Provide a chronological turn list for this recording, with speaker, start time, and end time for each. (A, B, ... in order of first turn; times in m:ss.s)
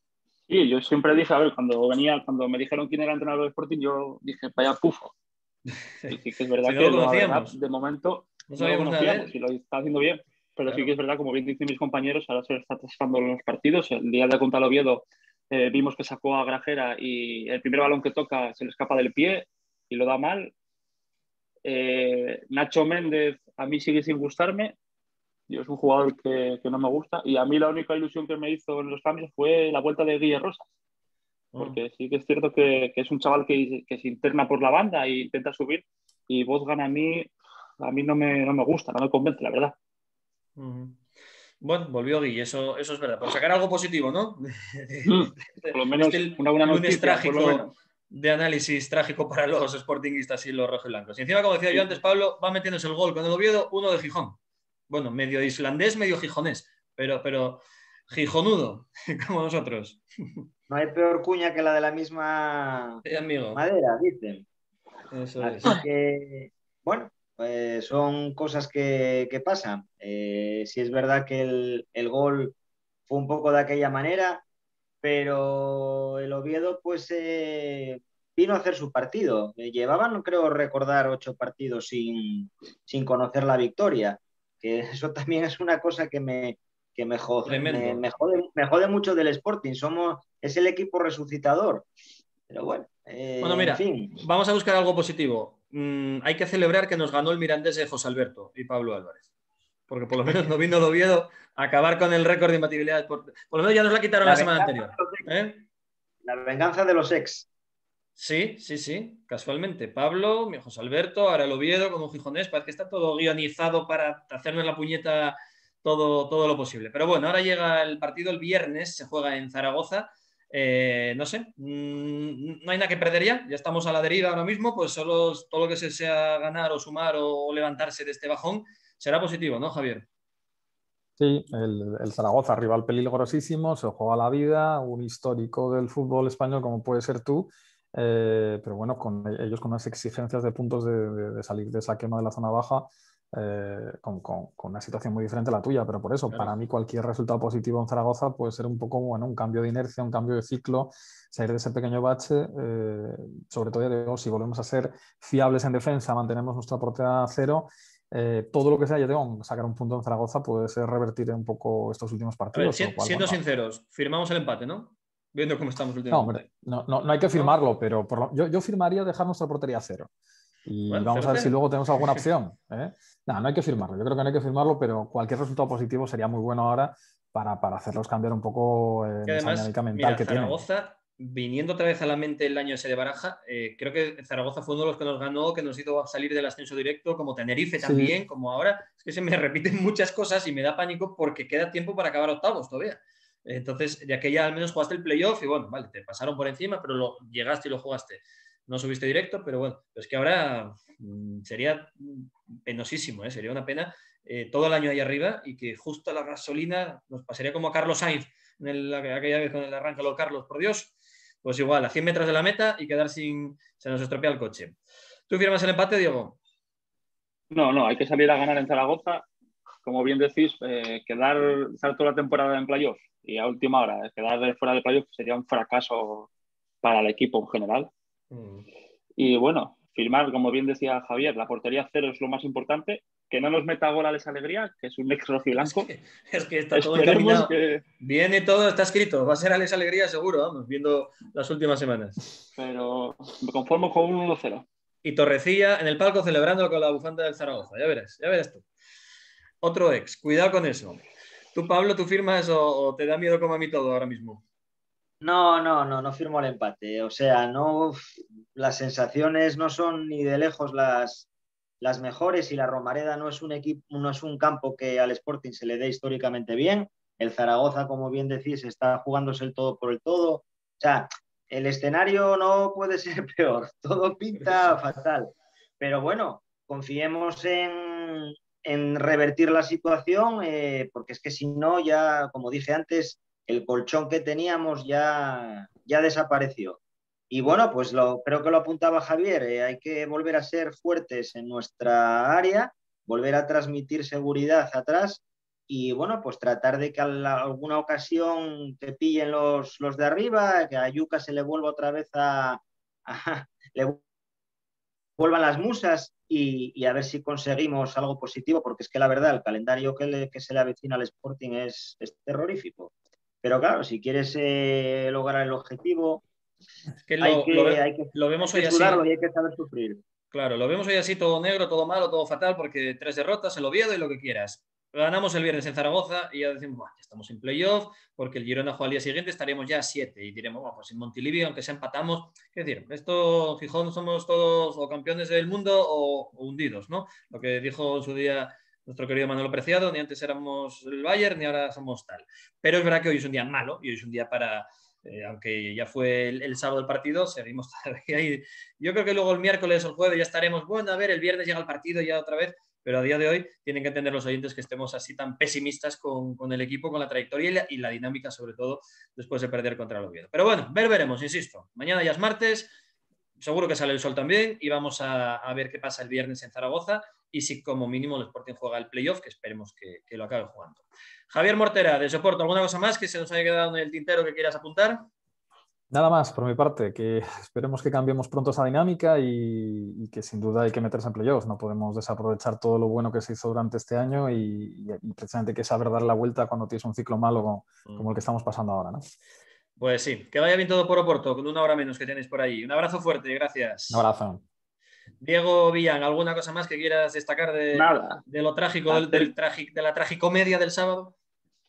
0:00.5-0:05.1 A
0:06.0-0:07.6 B
0:06.1-0:20.5 A
0:08.5-0:09.3 B
0:21.6-0:24.8 A
0:25.5-0:30.7 A
0:31.6-0:39.8 A
0:40.6-0:41.0 B
0:41.6-0:54.4 B
0:45.0-0:47.7 A
0:54.9-1:00.4 B
1:00.7-1:03.0 C
1:03.0-1:03.6 B
1:03.5-1:04.4 C
1:05.1-1:05.8 B
1:05.4-1:12.6 C
1:13.1-1:14.4 C
1:15.0-1:31.9 C
1:27.4-1:28.0 B
1:32.5-1:34.2 C
1:33.4-1:39.2 B
1:39.9-1:45.6 B
1:44.2-1:45.3 C
1:46.2-1:47.5 C
1:48.2-2:10.1 B
2:11.2-2:43.4 D
2:26.3-2:26.6 B
2:42.5-2:46.4 B
2:46.1-2:50.1 D
2:50.7-3:00.6 D
2:50.9-2:51.5 B
2:59.3-3:34.8 B
3:07.8-3:08.1 D
3:35.3-3:36.4 B
3:37.5-3:39.3 A
3:39.8-3:46.3 A
3:46.8-3:47.9 A
3:48.3-3:48.7 B
3:49.2-3:55.9 A
3:55.6-4:02.2 B
3:56.7-3:57.8 A
4:02.6-4:04.7 A
4:05.0-4:08.6 B
4:09.6-4:11.0 B
4:11.5-4:14.4 B
4:15.2-4:18.0 C
4:18.6-4:21.3 C
4:21.8-4:46.8 C
4:47.3-5:04.0 C
5:05.2-5:12.9 C
5:13.4-5:16.2 C
5:17.0-5:19.0 B
5:17.2-5:20.0 C
5:20.3-6:02.7 B
6:03.4-6:15.1 B
6:15.9-6:29.0 D
6:27.9-6:28.1 B
6:29.8-6:34.0 B
6:33.9-6:34.4 D
6:35.2-6:41.2 B
6:37.8-6:38.2 A
6:38.9-6:39.3 A